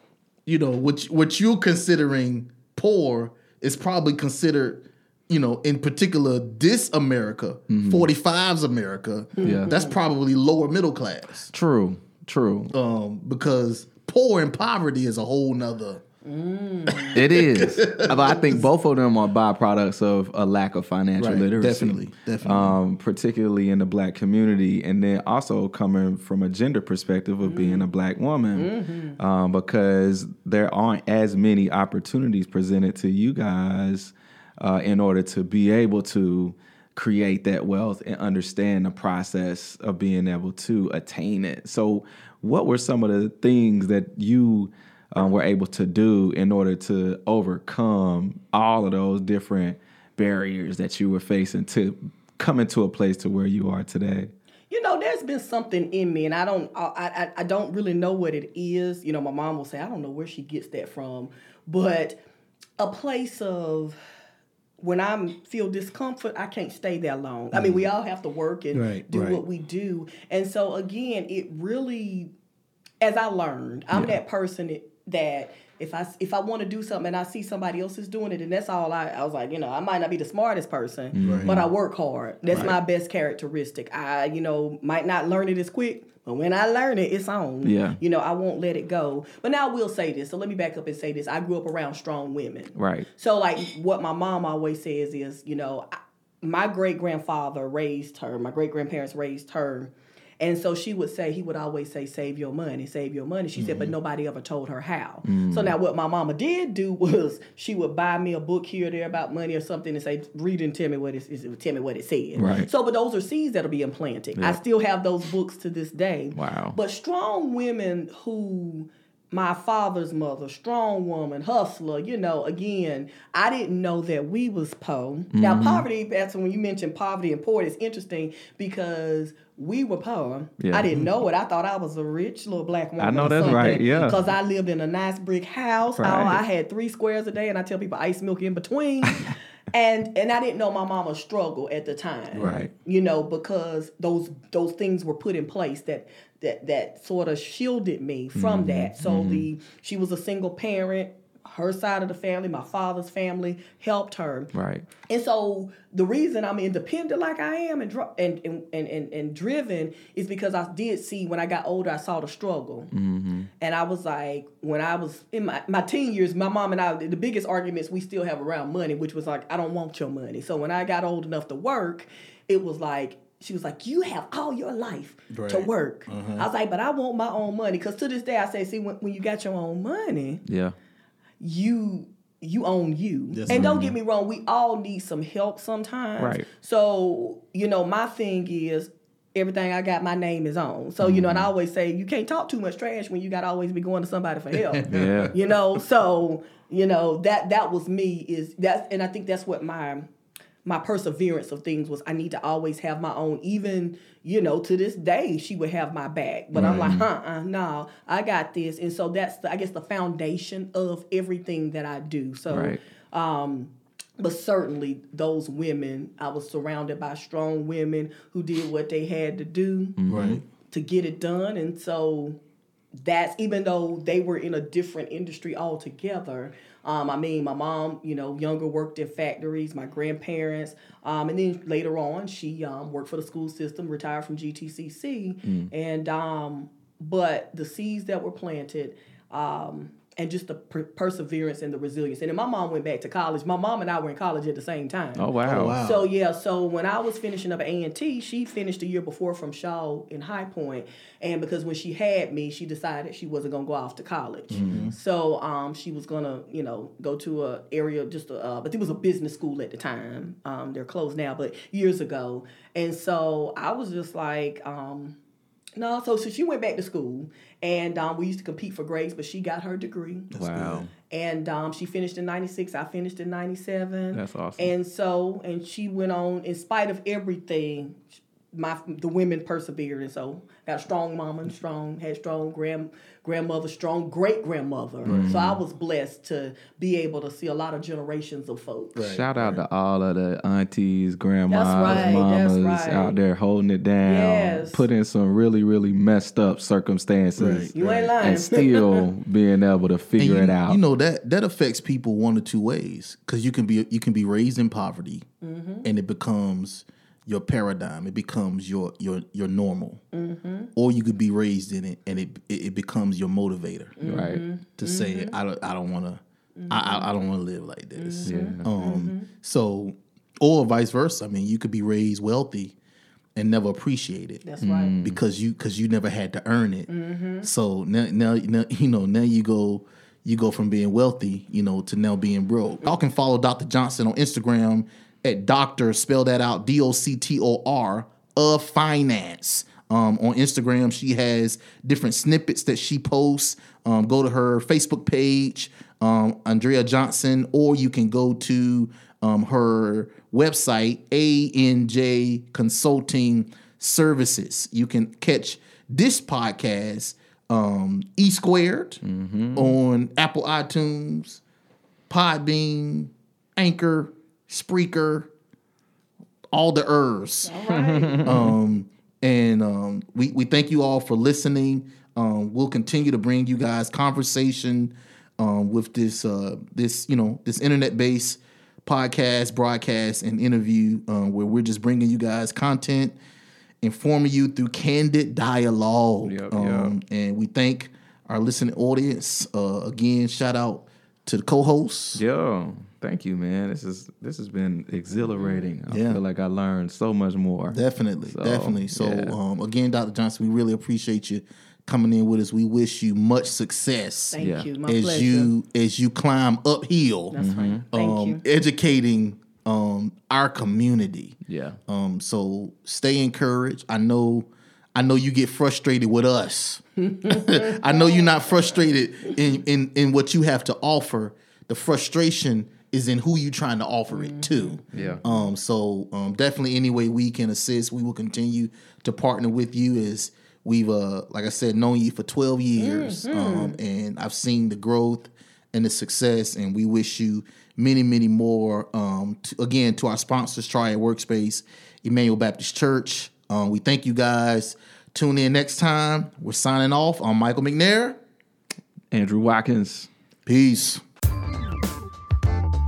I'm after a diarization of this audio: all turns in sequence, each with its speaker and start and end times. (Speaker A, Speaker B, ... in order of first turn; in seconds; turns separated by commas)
Speaker A: 0.5-11.5, Speaker B: 7.7-8.1, Speaker C: 9.4-9.9, Speaker B: 9.4-9.7, Speaker B: 11.5-12.7, Speaker A: 12.7-16.0, Speaker C: 16.2-17.2, Speaker A: 16.9-18.6, Speaker B: 17.1-54.3, Speaker A: 21.2-22.8, Speaker C: 27.4-27.9, Speaker C: 28.5-29.2, Speaker C: 54.7-62.2, Speaker C: 62.8-64.0, Speaker C: 64.8-72.3, Speaker A: 67.5-67.8, Speaker A: 68.7-69.4, Speaker C: 73.0-154.5, Speaker B: 81.1-81.6, Speaker A: 81.2-81.7, Speaker B: 87.6-88.0, Speaker B: 92.8-93.1, Speaker A: 103.5-103.9, Speaker B: 105.2-105.8, Speaker B: 112.3-112.7, Speaker B: 116.3-116.8, Speaker B: 125.3-125.8, Speaker B: 130.6-130.9, Speaker B: 133.0-134.2, Speaker B: 135.9-136.4, Speaker A: 142.3-142.7, Speaker B: 142.4-142.7, Speaker B: 148.3-149.5, Speaker B: 154.5-154.9, Speaker C: 155.1-162.9, Speaker B: 162.9-163.5, Speaker C: 163.6-180.4, Speaker A: 175.3-176.5, Speaker B: 180.4-180.8, Speaker C: 181.4-200.1, Speaker A: 183.3-184.0, Speaker B: 186.2-186.5, Speaker A: 194.5-195.3, Speaker B: 194.9-195.3, Speaker C: 200.6-220.0, Speaker A: 206.5-206.9, Speaker B: 206.5-207.1, Speaker B: 212.5-212.8, Speaker B: 220.0-220.4, Speaker A: 220.1-220.4, Speaker C: 220.7-222.4, Speaker C: 223.0-245.2, Speaker B: 235.4-235.7, Speaker B: 245.2-245.8, Speaker A: 245.4-246.1, Speaker C: 245.8-265.2, Speaker A: 254.5-254.9, Speaker B: 254.6-254.9, Speaker C: 265.8-270.3, Speaker A: 270.3-270.9, Speaker B: 270.3-270.9, Speaker C: 271.1-289.0, Speaker B: 274.1-274.7, Speaker A: 285.0-285.4, Speaker B: 285.1-285.6, Speaker A: 288.9-289.6, Speaker B: 289.0-300.8, Speaker C: 291.5-293.2, Speaker A: 291.9-292.2, Speaker C: 294.0-294.8, Speaker A: 297.4-298.1, Speaker C: 297.7-299.1, Speaker A: 300.2-305.2, Speaker C: 305.4-305.9, Speaker A: 305.8-310.0, Speaker C: 310.1-310.7, Speaker A: 310.8-314.0, Speaker C: 314.0-315.3, Speaker B: 314.0-314.4, Speaker A: 314.8-322.8, Speaker C: 316.6-317.1, Speaker C: 318.0-319.3, Speaker B: 318.2-318.7, Speaker A: 323.4-324.4, Speaker C: 324.4-324.9, Speaker B: 324.6-325.2, Speaker A: 325.0-326.9, Speaker C: 326.9-327.5, Speaker A: 327.4-359.0, Speaker B: 359.0-359.8, Speaker A: 359.5-361.4, Speaker A: 362.1-365.3, Speaker A: 366.5-367.6, Speaker C: 367.4-368.3, Speaker B: 367.7-368.5, Speaker A: 368.2-383.2, Speaker A: 383.8-392.2, Speaker B: 386.2-387.0, Speaker B: 392.1-399.4, Speaker C: 395.2-395.7, Speaker A: 395.9-396.2, Speaker A: 397.7-448.2, Speaker C: 404.3-405.5, Speaker B: 404.4-404.7, Speaker C: 407.3-408.4, Speaker B: 407.4-407.8, Speaker B: 411.5-411.8, Speaker C: 417.1-418.7, Speaker C: 424.1-425.4, Speaker B: 424.9-425.2, Speaker C: 432.8-433.8, Speaker B: 449.1-450.1, Speaker A: 450.5-451.0